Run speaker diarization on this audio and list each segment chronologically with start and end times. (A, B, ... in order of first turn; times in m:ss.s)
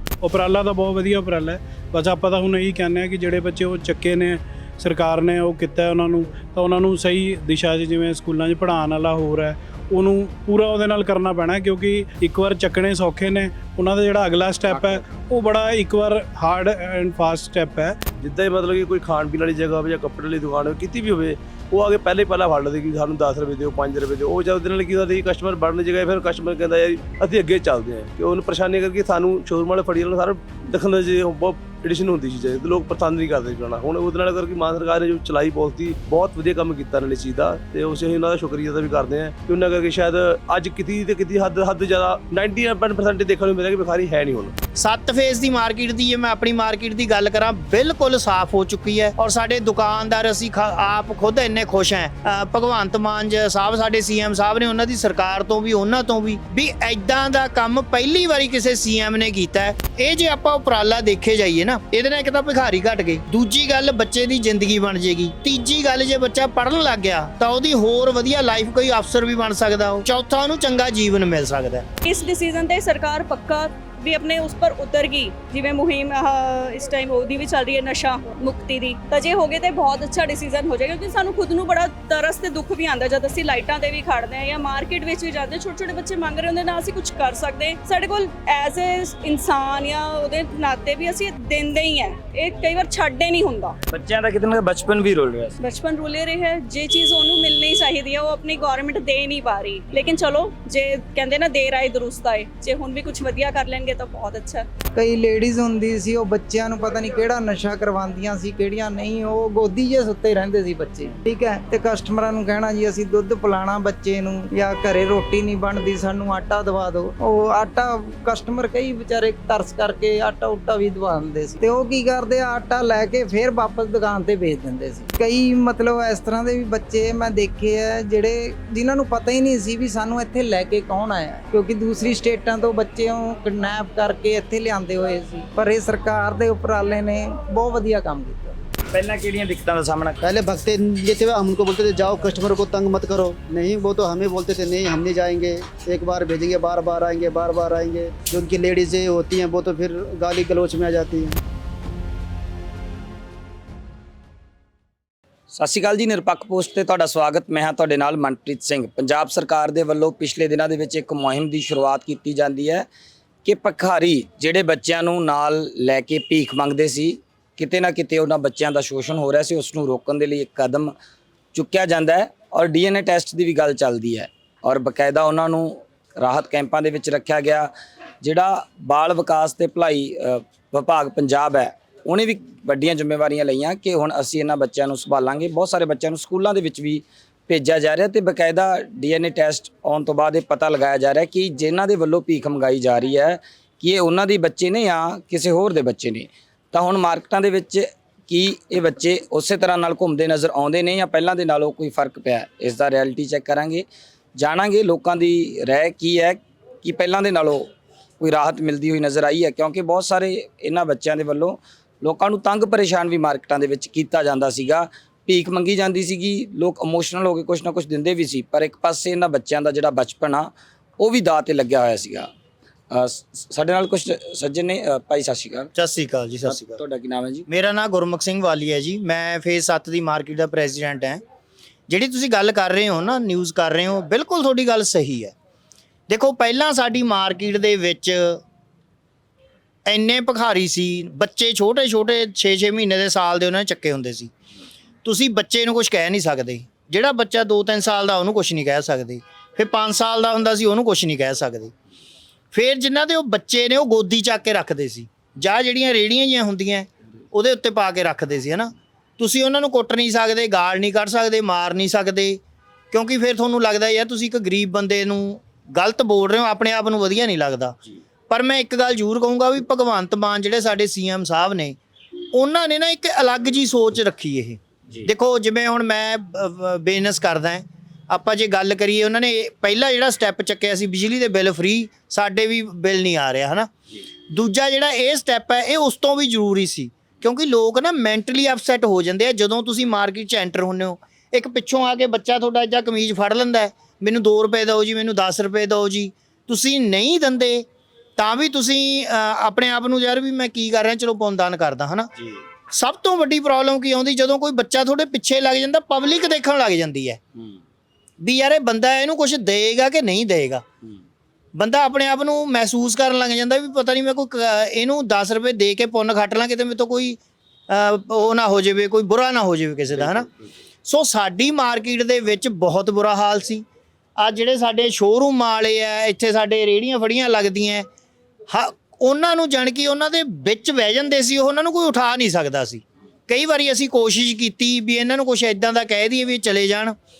0:00.2-0:18.0 A
0:14.7-0:15.0 B
0:18.2-0:44.6 B
0:44.8-1:11.8 C
1:12.0-1:33.8 D
1:33.9-1:35.6 E
1:35.6-1:44.7 D
1:44.9-2:18.6 F
2:18.9-2:20.2 E
2:20.2-2:31.4 G
2:35.5-2:42.9 E
2:43.4-2:50.9 E
2:51.5-3:42.3 E
3:42.9-3:45.7 E
3:45.8-3:46.8 C
3:46.5-3:47.4 E
3:47.5-3:51.2 C
3:51.9-3:55.3 C
3:56.1-3:58.4 C
3:59.8-4:04.3 C
4:05.0-4:11.7 C
4:12.5-4:27.8 C
4:28.3-4:31.8 C
4:32.3-4:43.7 C
4:44.3-4:57.6 C
4:58.2-5:02.1 C
5:02.7-5:07.2 C
5:08.2-5:10.6 C
5:11.6-5:20.3 C
5:20.0-5:20.2 E
5:20.8-5:23.6 C
5:24.2-5:27.9 C
5:28.5-5:36.9 C